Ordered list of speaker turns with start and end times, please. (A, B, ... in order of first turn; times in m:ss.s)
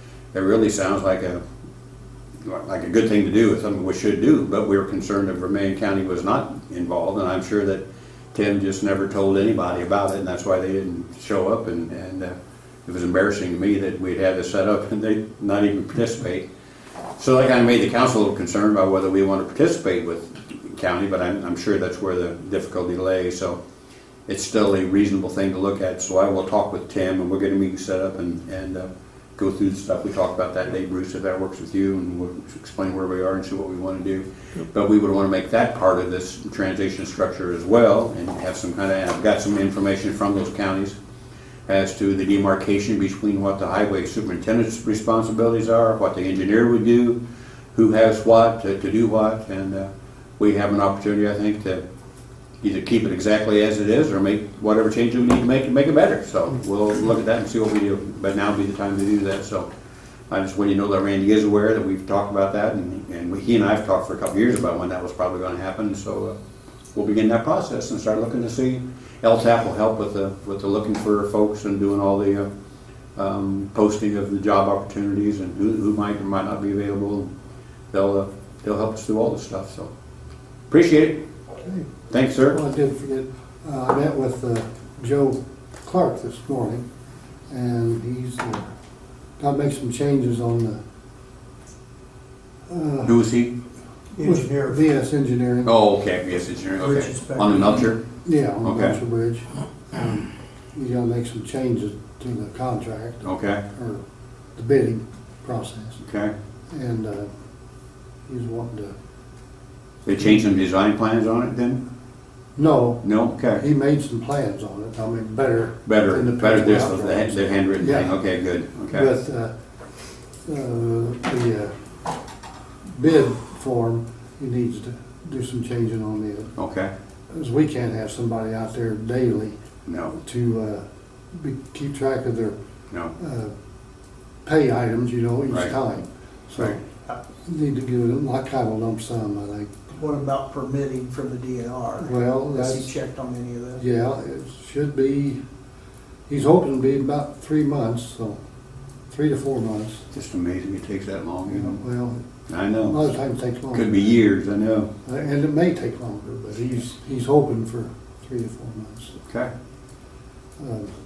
0:00.3-0:01.4 A
0:02.4-0:07.8 A
0:08.3-0:12.3 A
0:12.8-0:16.4 A
0:17.2-0:23.6 A
0:24.3-0:41.0 A
0:41.7-0:47.2 A
0:47.7-0:51.8 A
0:52.6-0:59.7 A
1:00.3-1:06.4 A
1:06.9-1:12.5 A
1:13.2-1:17.3 A
1:17.9-1:19.9 A
1:20.7-1:21.2 A
1:21.6-1:21.9 B
1:22.1-1:22.6 A
1:22.5-1:26.8 B
1:27.5-1:28.7 B
1:29.4-1:30.8 B
1:32.7-1:33.2 B
1:33.0-1:33.5 A
1:34.1-1:34.8 C
1:34.2-1:35.7 B
1:35.6-1:38.0 A
1:36.8-1:38.0 C
1:38.2-1:44.0 B
1:38.6-1:39.0 A
1:43.2-1:43.6 A
1:44.6-1:46.0 B
1:46.0-1:46.3 A
1:46.7-1:47.3 B
1:48.3-1:48.9 B
1:50.0-1:51.8 A
1:52.6-1:58.2 B
1:53.0-1:53.6 A
1:55.8-1:59.1 A
1:58.9-1:59.5 B
2:00.4-2:01.7 B
2:02.9-2:06.5 B
2:06.6-2:06.9 A
2:07.3-2:09.6 B
2:09.8-2:10.2 A
2:10.2-2:12.6 B
2:13.2-2:13.5 B
2:14.4-2:16.8 B
2:17.4-2:19.7 B
2:19.9-2:23.8 C
2:22.0-2:22.9 B
2:23.8-2:25.4 B
2:26.3-2:28.4 B
2:29.1-2:30.0 B
2:30.1-2:31.8 A
2:31.5-2:32.2 B
2:32.5-2:33.0 A
2:32.8-2:34.2 B
2:33.7-2:34.9 A
2:35.0-2:39.1 B
2:39.2-2:39.5 A
2:40.6-2:40.9 B